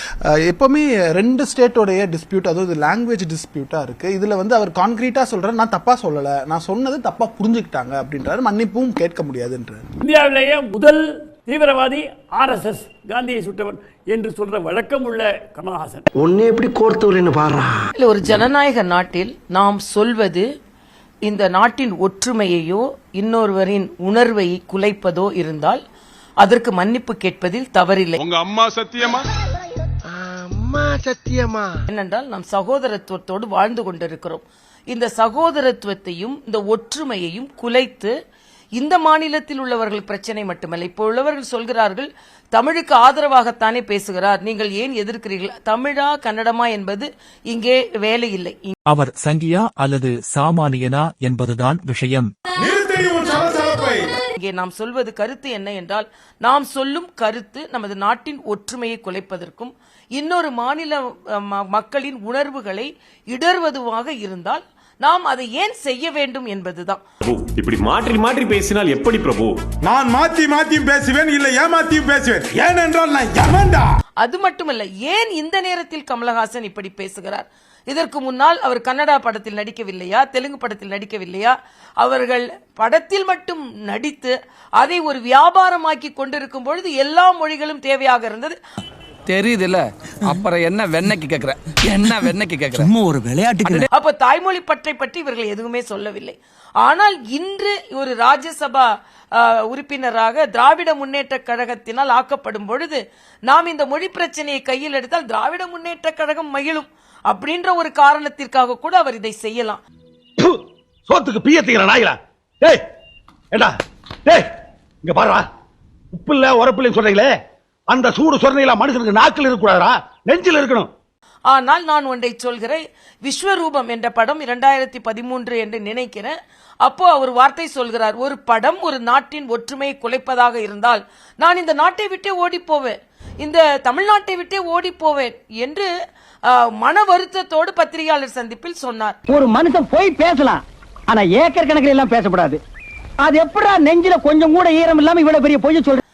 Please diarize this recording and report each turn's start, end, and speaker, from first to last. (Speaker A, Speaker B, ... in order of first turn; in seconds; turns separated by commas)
Speaker A: 0.3-9.8, Speaker B: 10.1-16.0, Speaker C: 18.0-20.5, Speaker C: 21.3-25.8, Speaker C: 26.4-28.2, Speaker D: 28.2-29.2, Speaker C: 31.9-38.1, Speaker C: 38.8-48.8, Speaker E: 48.9-52.3, Speaker D: 52.6-54.1, Speaker C: 54.4-67.0, Speaker F: 67.3-69.5, Speaker D: 69.9-73.8, Speaker C: 74.2-88.6, Speaker G: 89.3-92.9, Speaker C: 93.9-109.8, Speaker H: 110.4-112.8, Speaker H: 115.0-115.4, Speaker H: 116.1-117.3, Speaker H: 117.9-120.9, Speaker C: 121.5-135.9, Speaker C: 136.5-139.2, Speaker I: 139.3-142.6, Speaker I: 143.2-146.0